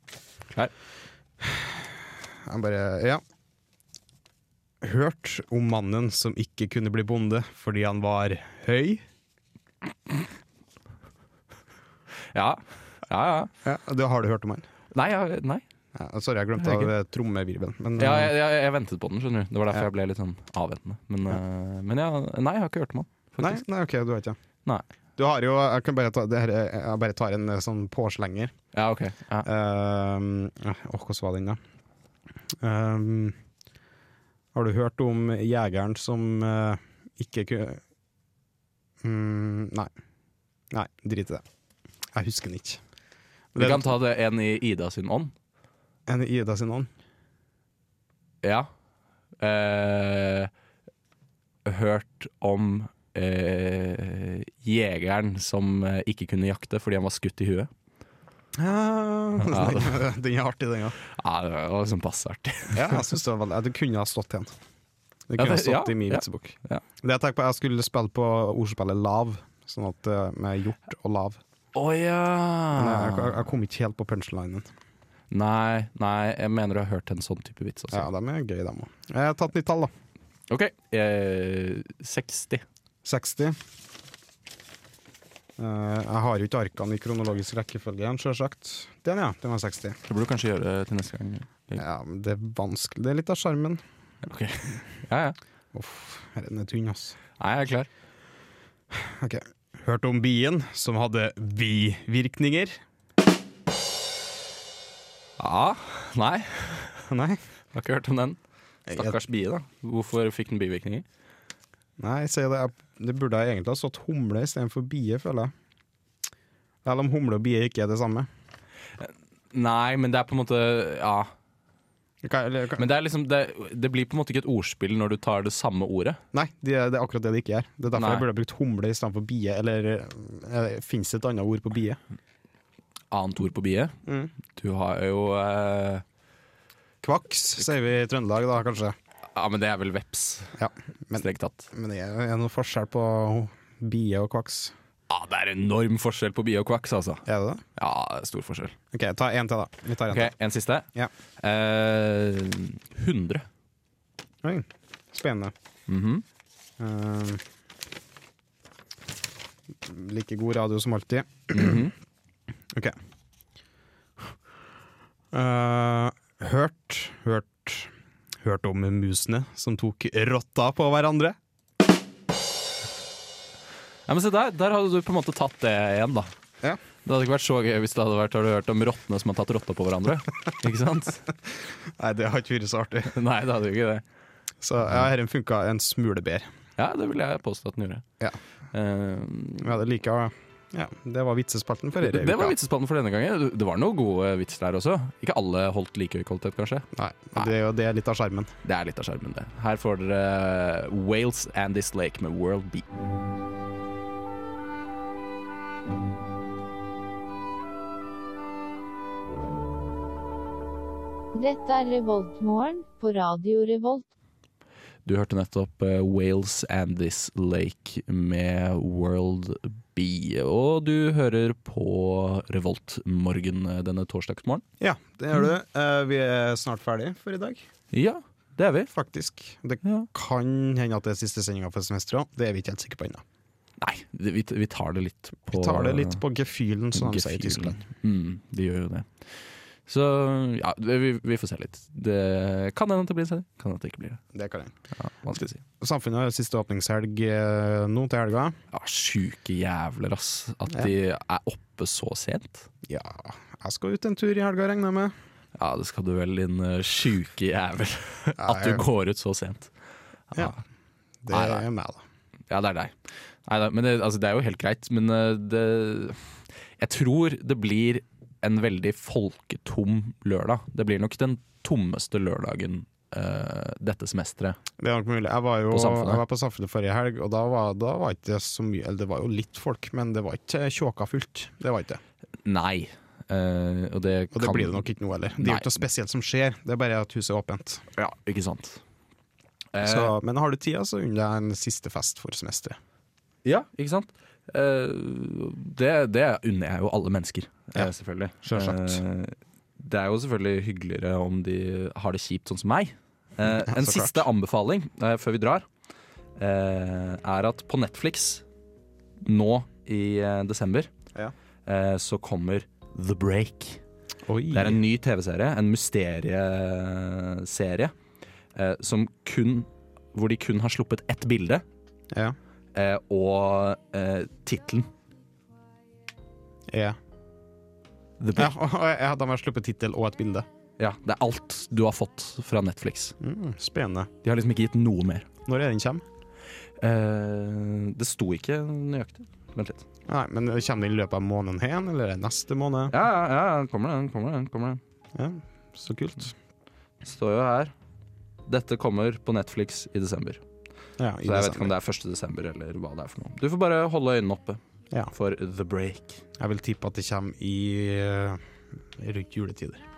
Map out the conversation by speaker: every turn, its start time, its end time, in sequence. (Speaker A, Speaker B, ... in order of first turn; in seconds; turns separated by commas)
Speaker A: 1.4-1.9, Speaker A: 2.5-3.2, Speaker A: 4.8-9.0, Speaker B: 12.3-13.5, Speaker A: 13.6-14.7, Speaker B: 14.9-15.6, Speaker A: 15.9-18.3, Speaker B: 16.6-16.9, Speaker B: 18.0-23.6, Speaker A: 23.4-24.4, Speaker A: 25.2-28.6, Speaker B: 28.7-29.5, Speaker A: 29.4-31.6, Speaker A: 32.6-33.4, Speaker A: 34.5-37.8, Speaker A: 39.0-39.9, Speaker A: 40.7-41.4, Speaker A: 42.1-42.8, Speaker A: 43.5-43.9, Speaker B: 43.6-45.3, Speaker A: 46.1-46.9, Speaker B: 48.4-48.7, Speaker B: 49.4-50.5, Speaker B: 51.6-57.7, Speaker A: 58.6-61.0, Speaker B: 59.4-60.0, Speaker B: 61.1-63.1, Speaker A: 62.7-64.5, Speaker A: 65.3-71.4, Speaker B: 65.4-66.8, Speaker B: 71.8-73.4, Speaker A: 72.7-74.7, Speaker B: 75.3-78.1, Speaker A: 77.9-79.9, Speaker B: 80.5-82.7, Speaker A: 83.0-83.6, Speaker A: 85.6-90.0, Speaker B: 90.1-91.8, Speaker A: 91.8-93.8, Speaker B: 94.2-95.4, Speaker A: 95.7-97.2, Speaker B: 97.4-97.9, Speaker A: 98.9-102.8, Speaker B: 105.4-107.0, Speaker A: 107.1-107.4, Speaker B: 107.7-108.4, Speaker A: 108.9-109.2, Speaker B: 108.9-111.1, Speaker A: 112.0-115.5, Speaker A: 116.8-118.3, Speaker B: 119.0-121.3, Speaker A: 122.2-122.8, Speaker B: 122.8-126.2, Speaker A: 126.3-132.0, Speaker B: 127.9-128.3, Speaker B: 133.1-134.0, Speaker A: 134.1-134.3, Speaker B: 134.5-136.0, Speaker A: 137.0-139.0, Speaker B: 139.3-140.6, Speaker A: 140.6-144.8, Speaker B: 141.1-141.7, Speaker B: 145.1-147.2, Speaker A: 147.3-147.6, Speaker B: 147.8-148.8, Speaker A: 148.9-150.3, Speaker B: 150.1-150.9, Speaker B: 151.4-153.5, Speaker A: 154.4-155.5, Speaker B: 155.9-156.2, Speaker A: 156.8-157.4, Speaker A: 159.8-161.9, Speaker B: 161.5-161.9, Speaker A: 165.3-171.4, Speaker B: 174.1-176.3, Speaker B: 177.0-181.3, Speaker A: 181.5-183.1, Speaker B: 183.1-184.0, Speaker A: 184.6-186.5, Speaker B: 186.8-188.1, Speaker B: 188.7-189.8, Speaker A: 189.6-192.6, Speaker B: 192.0-197.5, Speaker A: 196.9-198.5, Speaker B: 198.7-202.9, Speaker C: 211.3-214.1, Speaker B: 215.1-224.6, Speaker A: 224.8-227.7, Speaker B: 227.9-228.9, Speaker A: 228.9-233.2, Speaker B: 229.8-230.1, Speaker B: 233.8-236.2, Speaker A: 235.5-237.8, Speaker B: 236.9-244.2, Speaker A: 244.3-244.7, Speaker B: 245.0-245.6, Speaker A: 245.3-248.6, Speaker B: 248.7-252.7, Speaker A: 252.9-255.1, Speaker B: 255.6-259.7, Speaker A: 258.4-258.9, Speaker B: 260.3-260.6, Speaker A: 261.2-262.0, Speaker B: 261.3-261.6, Speaker B: 262.5-262.9, Speaker B: 263.5-266.2, Speaker B: 266.8-274.6, Speaker A: 274.8-282.0, Speaker B: 275.7-276.2, Speaker B: 282.4-284.9, Speaker A: 284.4-287.8, Speaker B: 285.4-285.8, Speaker B: 288.0-288.8, Speaker B: 289.7-290.1, Speaker A: 289.8-292.8, Speaker B: 293.4-305.7, Speaker A: 298.4-299.0, Speaker A: 303.7-304.2, Speaker B: 306.4-308.4, Speaker B: 309.2-310.9, Speaker B: 311.7-313.8, Speaker A: 314.3-314.8, Speaker B: 314.5-317.9, Speaker B: 318.5-321.6, Speaker B: 322.7-324.9, Speaker A: 326.7-327.0, Speaker B: 328.2-328.6, Speaker A: 328.4-330.5, Speaker B: 330.8-333.2, Speaker A: 333.2-334.1, Speaker B: 334.2-335.3, Speaker A: 335.4-336.0, Speaker B: 336.8-339.9, Speaker A: 340.1-342.9, Speaker B: 342.9-344.8, Speaker A: 345.1-346.3, Speaker B: 347.0-347.7, Speaker B: 348.5-350.4, Speaker A: 351.0-351.8, Speaker B: 351.2-354.6, Speaker B: 355.1-356.2, Speaker A: 356.4-359.8